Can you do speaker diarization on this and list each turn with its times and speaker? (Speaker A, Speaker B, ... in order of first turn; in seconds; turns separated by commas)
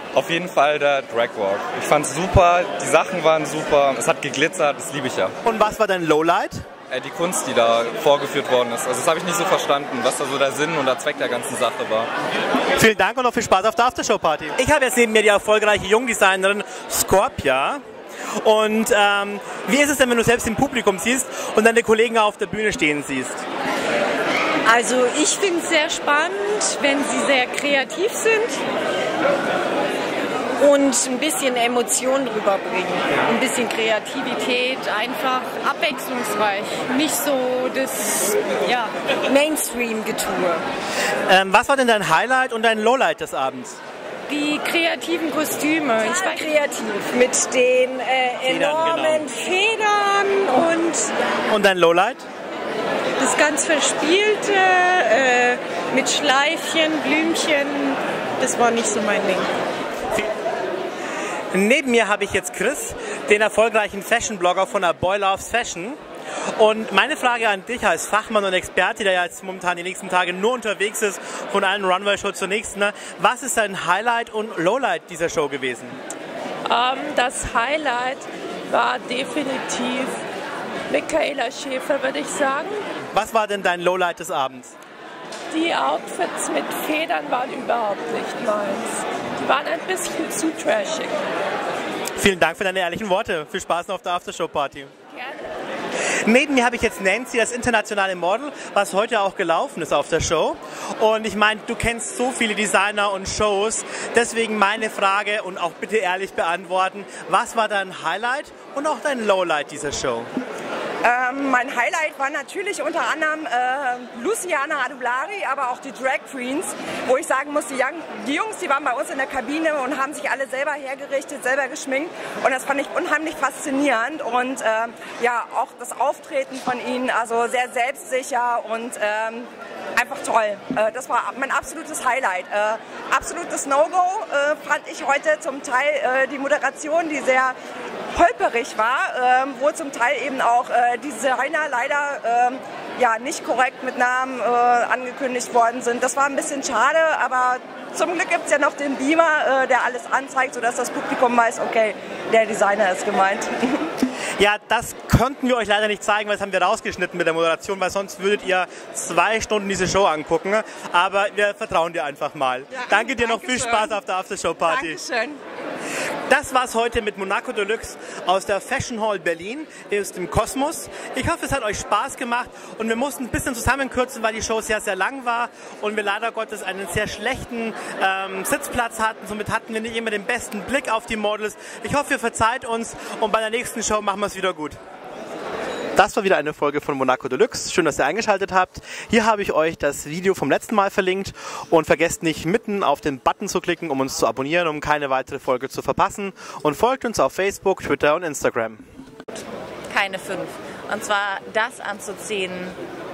Speaker A: 0.1-5.3, Speaker B: 5.4-6.6, Speaker A: 6.9-12.1, Speaker B: 12.8-17.8, Speaker B: 18.4-23.4, Speaker C: 24.7-28.6, Speaker C: 30.6-40.6, Speaker B: 41.3-43.8, Speaker C: 44.3-51.1, Speaker B: 48.4-49.3, Speaker B: 51.5-52.2, Speaker C: 53.2-59.5, Speaker B: 61.5-66.0, Speaker B: 66.6-76.0, Speaker D: 76.7-80.2, Speaker D: 80.9-82.8, Speaker B: 83.1-84.7, Speaker D: 85.5-91.1, Speaker B: 92.2-94.9, Speaker B: 96.2-110.3, Speaker E: 111.0-137.6, Speaker E: 138.1-153.9, Speaker B: 154.4-165.0, Speaker E: 162.8-164.0, Speaker E: 164.7-165.4, Speaker B: 166.3-184.8, Speaker B: 186.0-198.8, Speaker F: 199.9-202.8